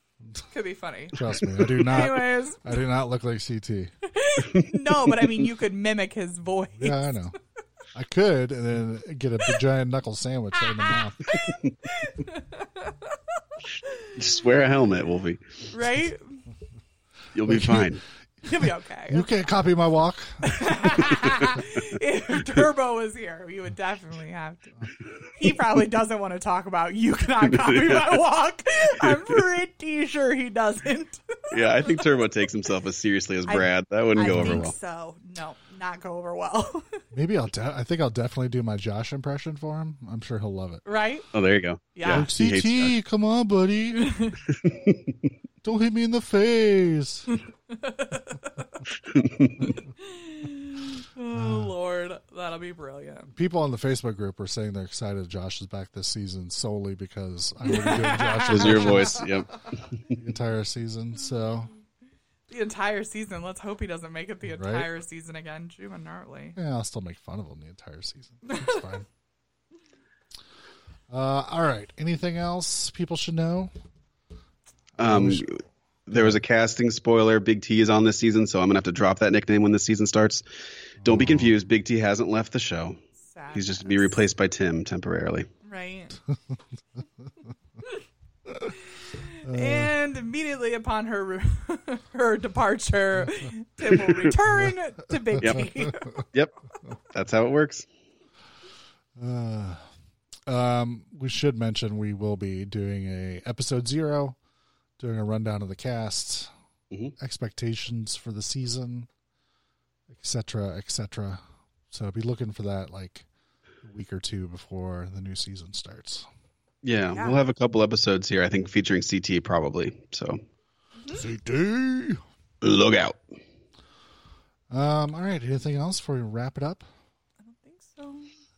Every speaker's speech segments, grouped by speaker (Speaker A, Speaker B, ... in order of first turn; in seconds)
Speaker A: 0.5-2.7, 4.0-7.3, 10.6-14.2, 15.7-16.4, 18.4-19.3, 20.4-24.8, 25.4-32.0, 33.5-37.0, 40.9-41.3, 42.0-42.3, 44.0-44.4, 47.7-48.8, 50.0-53.3, 57.7-59.3, 62.5-66.6, 68.5-68.8, 83.2-84.2, 85.7-86.2, 89.1-96.2, 121.0-121.2, 127.4-128.3
Speaker B: 1.1-3.9, 6.8-7.4, 7.9-11.3, 17.5-18.0, 19.1-20.7, 34.2-34.7, 37.1-40.8, 42.0-44.1, 45.6-47.3, 51.4-51.7, 53.3-59.3, 60.1-61.7, 64.5-64.9, 66.6-69.1, 71.1-73.7, 75.0-75.5, 81.0-81.5, 89.4-89.9, 99.2-99.8, 100.5-104.4, 105.0-106.5, 107.2-109.1, 110.1-113.3, 113.8-116.3, 121.2-122.2, 124.7-126.8
Speaker C: 4.5-5.3, 14.2-15.6, 17.3-18.0, 27.6-28.0, 31.5-34.7, 41.3-42.9, 44.6-45.0, 49.1-49.7, 58.5-60.2, 75.0-80.4, 81.0-83.0, 83.5-85.5, 95.4-95.7, 97.1-97.9, 116.8-120.4, 122.6-123.2